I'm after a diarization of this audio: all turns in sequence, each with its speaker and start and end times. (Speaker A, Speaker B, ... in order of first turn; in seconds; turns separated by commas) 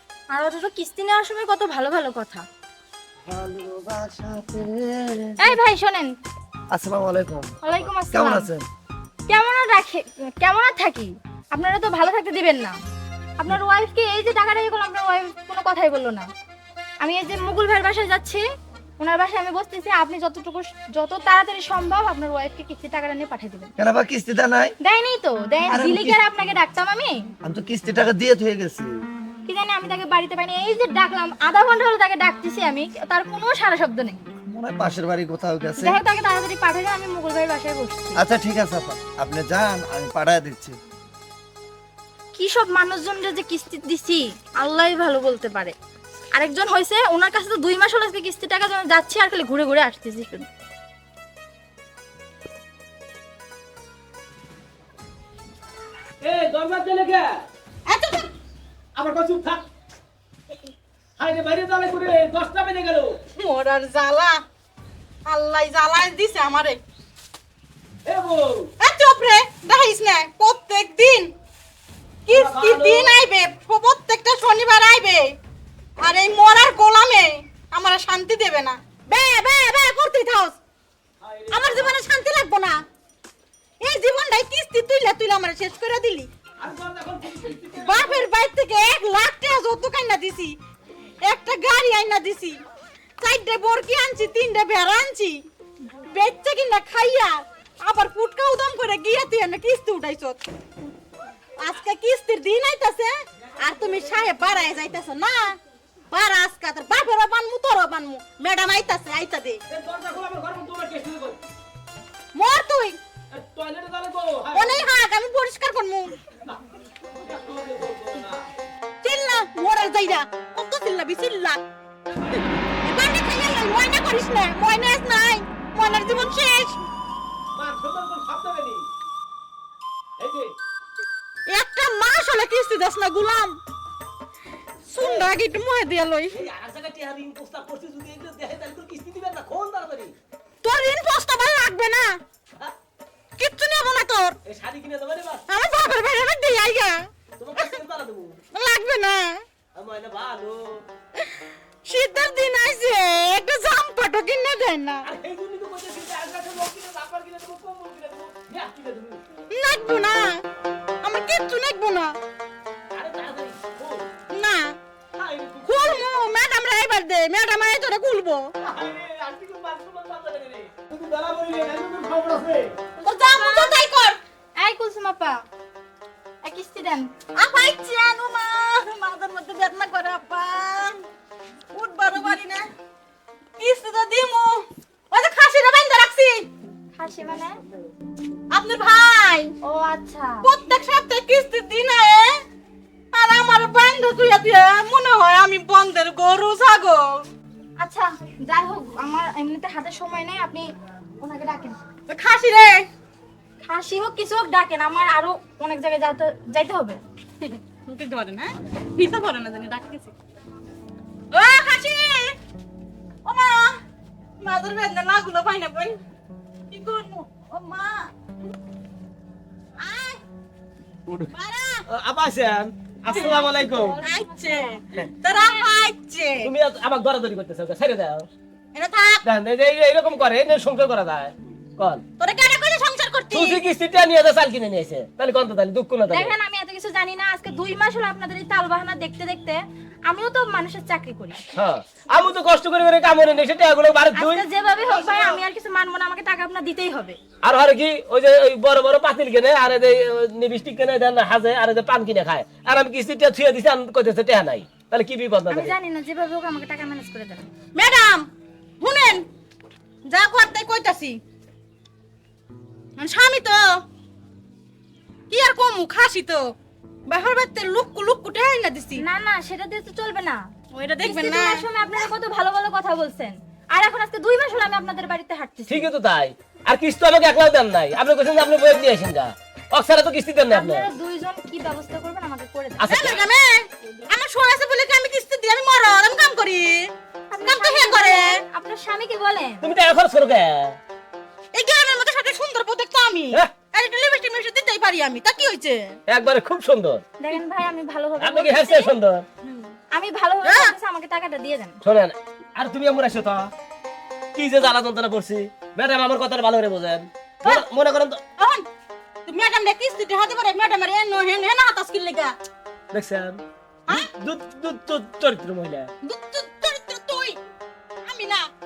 Speaker A: 0.3-2.5, Speaker B: 3.3-5.6, Speaker A: 5.4-6.1, Speaker B: 6.7-8.7, Speaker A: 7.6-8.5, Speaker A: 9.3-12.8, Speaker A: 13.4-16.3, Speaker A: 17.0-18.4, Speaker A: 19.0-23.7, Speaker B: 23.8-24.7, Speaker A: 24.8-27.2, Speaker B: 25.7-26.2, Speaker B: 27.4-28.9, Speaker A: 29.4-34.2, Speaker B: 34.5-36.0, Speaker A: 35.8-38.2, Speaker B: 38.2-40.8, Speaker A: 42.3-45.7, Speaker A: 46.3-50.5, Speaker C: 56.2-57.3, Speaker D: 57.9-58.3, Speaker C: 59.0-59.6, Speaker C: 61.2-63.2, Speaker D: 63.3-64.4, Speaker D: 65.2-66.8, Speaker C: 68.0-68.7, Speaker D: 68.8-71.3, Speaker D: 72.3-75.4, Speaker C: 72.3-73.2, Speaker D: 76.0-80.6, Speaker C: 81.2-82.0, Speaker D: 81.5-82.8, Speaker D: 83.8-86.3, Speaker C: 86.6-88.3, Speaker D: 87.8-90.5, Speaker D: 91.2-92.6, Speaker D: 93.2-95.4, Speaker D: 96.0-100.4, Speaker D: 101.6-105.6, Speaker D: 106.1-109.6, Speaker C: 109.7-111.4, Speaker D: 112.3-113.0, Speaker C: 113.3-114.8, Speaker D: 114.5-116.2, Speaker C: 117.1-118.5, Speaker D: 119.0-121.6, Speaker D: 122.3-126.8, Speaker C: 127.5-128.9, Speaker C: 130.2-130.5, Speaker D: 131.5-133.6, Speaker D: 134.9-136.4, Speaker C: 135.0-135.3, Speaker C: 136.3-140.1, Speaker D: 140.6-142.2, Speaker D: 143.4-144.4, Speaker C: 144.4-145.4, Speaker D: 145.5-147.7, Speaker C: 147.4-148.4, Speaker D: 148.5-149.4, Speaker C: 149.7-150.8, Speaker D: 151.8-155.1, Speaker C: 155.0-159.2, Speaker D: 159.5-160.4, Speaker D: 161.0-162.2, Speaker C: 162.9-164.1, Speaker D: 164.3-164.7, Speaker C: 165.1-166.1, Speaker D: 165.6-168.5, Speaker C: 168.6-172.7, Speaker A: 173.0-173.8, Speaker D: 173.0-174.2, Speaker A: 174.6-175.4, Speaker A: 176.4-177.1, Speaker D: 177.3-181.0, Speaker D: 181.7-182.7, Speaker D: 183.6-186.5, Speaker A: 186.9-187.6, Speaker D: 188.5-189.5, Speaker A: 189.6-190.4, Speaker D: 190.4-192.4, Speaker D: 193.1-197.1, Speaker A: 197.8-200.7, Speaker A: 201.2-201.8, Speaker D: 202.1-202.9, Speaker A: 203.6-207.0, Speaker D: 207.4-210.1, Speaker D: 211.3-212.4, Speaker D: 213.2-213.8, Speaker D: 214.4-216.0, Speaker D: 216.7-218.1, Speaker D: 219.8-220.2, Speaker D: 221.3-221.8, Speaker C: 221.9-224.0, Speaker A: 223.1-224.8, Speaker D: 224.0-226.5, Speaker A: 225.3-225.6, Speaker C: 226.4-228.3, Speaker D: 228.7-229.2, Speaker C: 229.2-232.0, Speaker D: 232.2-233.6, Speaker C: 233.3-236.3, Speaker A: 236.1-241.4, Speaker C: 241.5-244.4, Speaker A: 244.1-247.2, Speaker D: 244.9-245.2, Speaker C: 247.4-255.7, Speaker A: 255.5-257.5, Speaker D: 257.7-258.3, Speaker D: 258.8-259.2, Speaker D: 260.1-261.2, Speaker D: 263.0-263.8, Speaker D: 265.3-266.5, Speaker D: 267.1-269.0, Speaker A: 269.0-270.4, Speaker D: 270.7-271.6, Speaker A: 271.0-275.9, Speaker C: 275.7-280.9, Speaker A: 280.5-283.1, Speaker C: 282.8-283.2, Speaker D: 282.9-288.4, Speaker A: 287.3-289.7, Speaker C: 289.6-290.8, Speaker D: 291.5-295.9, Speaker C: 296.1-297.0, Speaker A: 297.2-298.9, Speaker C: 298.2-299.2, Speaker D: 299.4-299.7, Speaker A: 299.9-301.8, Speaker D: 300.4-300.7, Speaker C: 301.8-303.5, Speaker C: 304.4-308.2, Speaker D: 308.4-308.6, Speaker D: 309.2-312.3, Speaker C: 312.9-315.9, Speaker D: 316.0-317.4, Speaker D: 318.0-318.5